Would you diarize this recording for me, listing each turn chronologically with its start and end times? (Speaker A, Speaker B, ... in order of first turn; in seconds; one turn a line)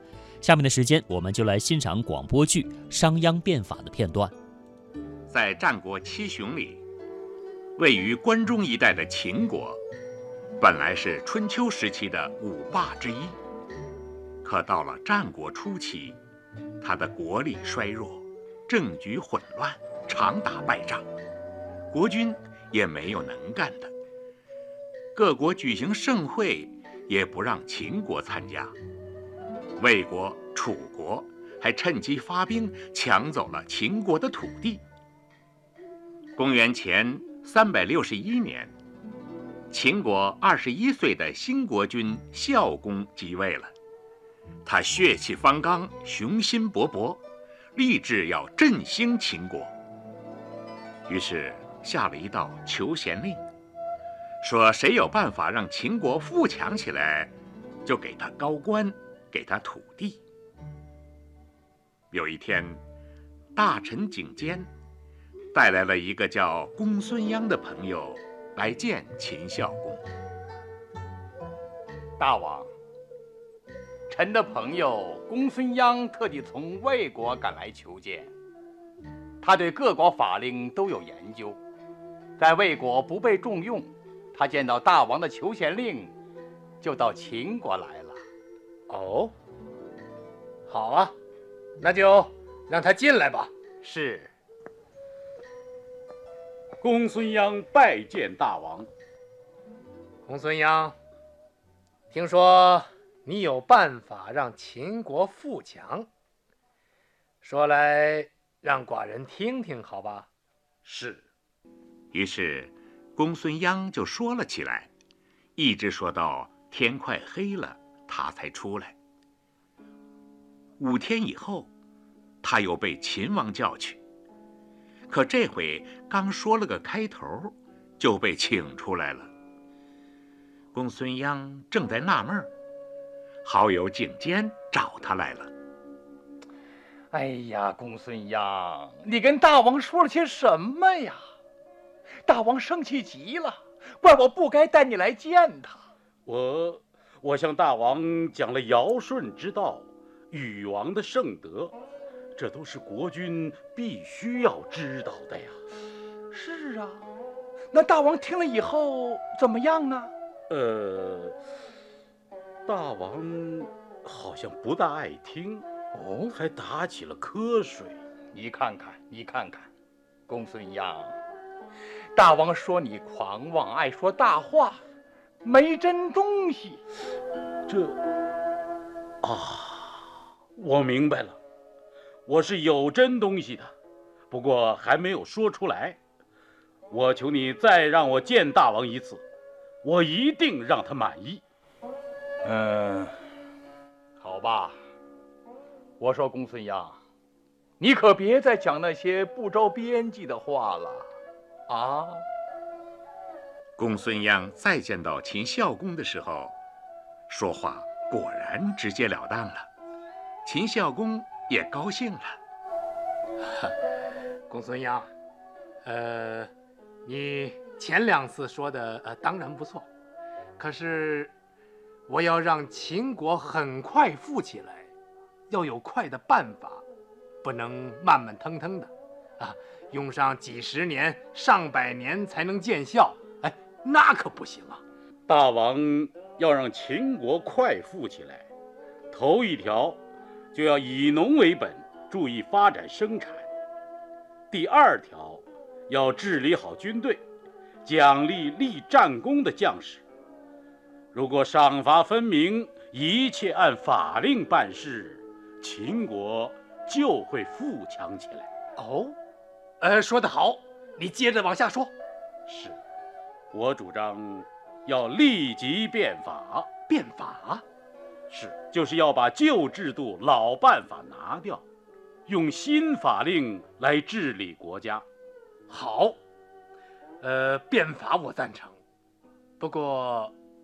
Speaker A: 0.4-4.3
Speaker B: 5.3-6.8
Speaker B: 7.8-9.8
Speaker B: 10.6-13.4
Speaker B: 14.4-16.2
Speaker B: 16.8-21.1
Speaker B: 21.9-23.9
Speaker B: 25.1-28.8
Speaker B: 29.8-34.8
Speaker B: 36.4-38.7
Speaker B: 39.7-43.7
Speaker B: 44.6-47.2
Speaker B: 47.8-49.7
Speaker B: 51.1-53.4
Speaker B: 54.4-60.2
Speaker B: 62.1-62.8
Speaker B: 63.5-64.7
Speaker B: 65.5-70.0
Speaker C: 72.2-72.7
Speaker C: 74.1-78.3
Speaker C: 79.4-81.6
Speaker C: 82.4-86.1
Speaker C: 86.8-88.2
Speaker D: 88.9-89.3
Speaker D: 90.7-91.2
Speaker D: 91.8-93.5
Speaker C: 93.8-94.3
Speaker E: 96.8-98.9
Speaker D: 100.3-101.0
Speaker D: 102.1-106.1
Speaker D: 107.4-110.3
Speaker E: 110.8-111.2
Speaker B: 112.1-114.9
Speaker B: 115.6-119.0
Speaker B: 120.8-121.7
Speaker B: 122.4-124.0
Speaker B: 125.1-129.3
Speaker B: 130.7-132.5
Speaker B: 133.4-135.5
Speaker C: 137.1-141.2
Speaker C: 142.2-145.8
Speaker E: 146.3-151.8
Speaker E: 152.4-155.6
Speaker C: 156.3-157.0
Speaker C: 157.7-160.1
Speaker E: 160.5-161.4
Speaker E: 162.7-165.7
Speaker C: 165.9-166.3
Speaker E: 166.3-168.0
Speaker C: 168.3-169.7
Speaker C: 170.3-171.2
Speaker C: 172.1-174.8
Speaker C: 175.4-176.8
Speaker E: 177.7-178.0
Speaker E: 179.2-181.4
Speaker E: 182.3-183.7
Speaker E: 184.3-186.0
Speaker E: 186.9-189.2
Speaker E: 189.8-191.4
Speaker C: 192.4-193.2
Speaker C: 194.2-194.8
Speaker C: 196.0-197.0
Speaker C: 197.8-201.1
Speaker C: 201.7-202.2
Speaker B: 203.8-206.6
Speaker B: 207.3-209.7
Speaker B: 210.4-212.4
Speaker D: 214.5-215.1
Speaker D: 215.8-216.5
Speaker D: 217.0-219.9
Speaker D: 220.6-221.3
Speaker D: 222.1-224.9
Speaker D: 225.5-226.8
Speaker D: 227.4-234.8
Speaker E: 235.3-238.5
Speaker E: 239.1-240.0
Speaker E: 240.5-243.5
Speaker E: 244.5-247.2
Speaker E: 247.8-250.0
Speaker E: 251.1-258.5
Speaker D: 258.8-259.2
Speaker D: 259.8-261.9
Speaker E: 262.5-262.8
Speaker E: 263.5-266.7
Speaker D: 266.9-267.6
Speaker E: 268.3-271.6
Speaker E: 272.3-275.1
Speaker D: 275.7-276.2
Speaker D: 277.2-278.8
Speaker D: 279.6-280.4